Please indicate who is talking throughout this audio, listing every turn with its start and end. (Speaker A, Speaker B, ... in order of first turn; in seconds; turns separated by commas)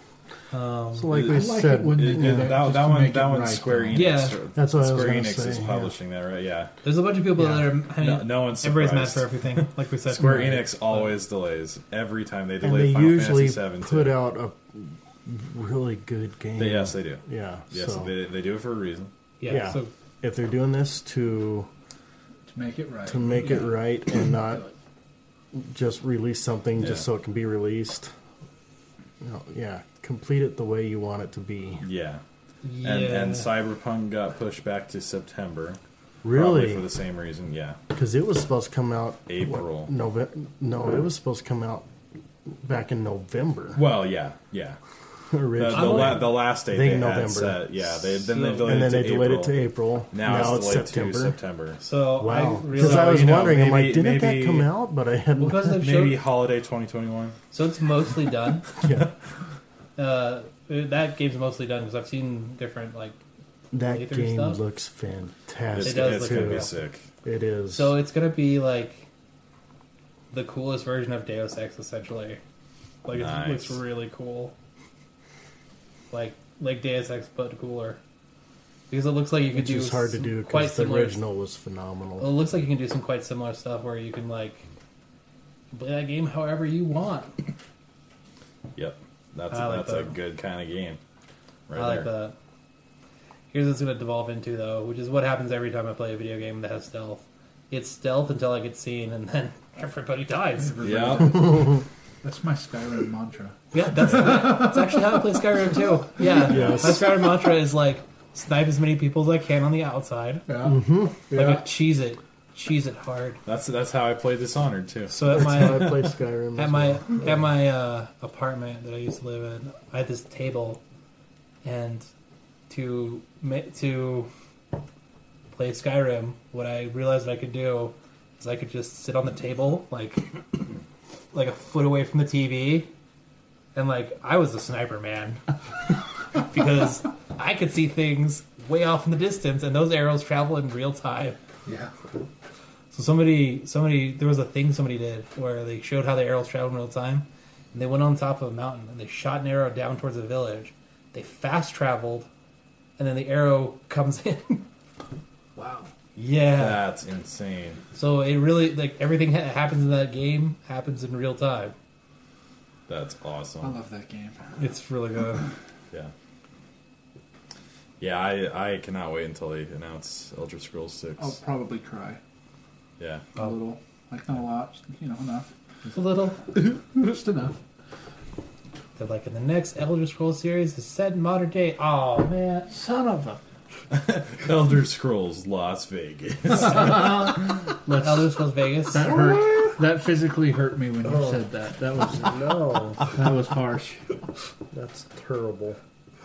Speaker A: 0.5-1.1, Speaker B: 0.9-2.7, Speaker C: 1.1-4.1, Speaker D: 1.1-6.7, Speaker A: 3.9-4.4, Speaker B: 4.5-5.9, Speaker A: 6.8-11.1, Speaker D: 7.7-14.2, Speaker B: 12.6-18.1, Speaker D: 16.6-19.1, Speaker A: 19.4-19.9, Speaker B: 19.5-21.7, Speaker C: 22.5-24.7, Speaker B: 23.1-24.6, Speaker B: 25.5-28.1, Speaker D: 26.8-27.1, Speaker B: 29.2-31.9, Speaker D: 31.8-32.2, Speaker A: 32.6-33.5, Speaker D: 32.8-35.8, Speaker B: 36.2-36.9, Speaker D: 36.3-37.8, Speaker B: 37.9-41.9, Speaker D: 39.3-39.9, Speaker B: 42.5-43.8, Speaker D: 43.7-44.8, Speaker B: 45.3-51.4, Speaker D: 45.5-49.6, Speaker A: 45.7-46.4, Speaker A: 48.3-48.9, Speaker D: 50.1-51.8, Speaker A: 51.8-53.5, Speaker B: 52.2-55.8, Speaker D: 52.8-54.7, Speaker A: 55.4-56.2, Speaker D: 55.7-57.4, Speaker A: 57.5-58.7, Speaker B: 58.8-59.1, Speaker A: 60.0-63.2, Speaker B: 63.7-66.7, Speaker A: 63.8-64.6, Speaker D: 65.7-67.1, Speaker A: 65.8-66.8, Speaker B: 67.2-68.0, Speaker A: 67.7-69.1, Speaker A: 70.3-72.4, Speaker A: 73.0-74.5, Speaker D: 73.1-73.8, Speaker A: 76.1-78.0, Speaker A: 78.9-81.2, Speaker B: 79.5-82.3, Speaker A: 82.2-84.7, Speaker A: 85.7-87.4, Speaker D: 88.8-91.0, Speaker A: 89.5-90.1, Speaker D: 91.7-92.1, Speaker A: 91.8-92.3, Speaker A: 93.5-101.1, Speaker C: 100.6-105.2, Speaker D: 100.8-101.5, Speaker B: 101.4-101.8, Speaker A: 103.7-110.5, Speaker D: 104.0-104.5, Speaker B: 106.4-107.3, Speaker D: 106.5-107.0, Speaker C: 110.5-110.8, Speaker B: 110.6-111.2, Speaker C: 111.3-111.6, Speaker A: 111.3-113.4, Speaker D: 113.5-115.3, Speaker A: 115.1-120.8, Speaker B: 115.3-117.3, Speaker A: 121.6-122.1, Speaker A: 122.7-124.3, Speaker A: 125.5-130.7, Speaker A: 131.3-132.9, Speaker A: 133.8-135.4, Speaker A: 136.3-141.4, Speaker C: 141.7-141.9, Speaker A: 142.9-152.3, Speaker A: 153.0-154.7, Speaker C: 155.6-155.9, Speaker A: 156.2-156.8, Speaker D: 156.5-157.8, Speaker A: 157.9-161.8, Speaker D: 162.9-163.8, Speaker C: 163.6-164.6, Speaker A: 164.6-165.5, Speaker D: 168.0-171.4, Speaker C: 171.2-172.2, Speaker D: 173.0-173.3, Speaker C: 173.3-175.5, Speaker A: 175.9-176.6, Speaker C: 176.5-177.6, Speaker A: 179.0-182.7, Speaker C: 182.7-183.4, Speaker D: 183.9-187.4, Speaker A: 187.9-189.1, Speaker C: 188.9-194.1, Speaker B: 191.0-191.5, Speaker B: 192.0-193.1, Speaker B: 194.7-195.8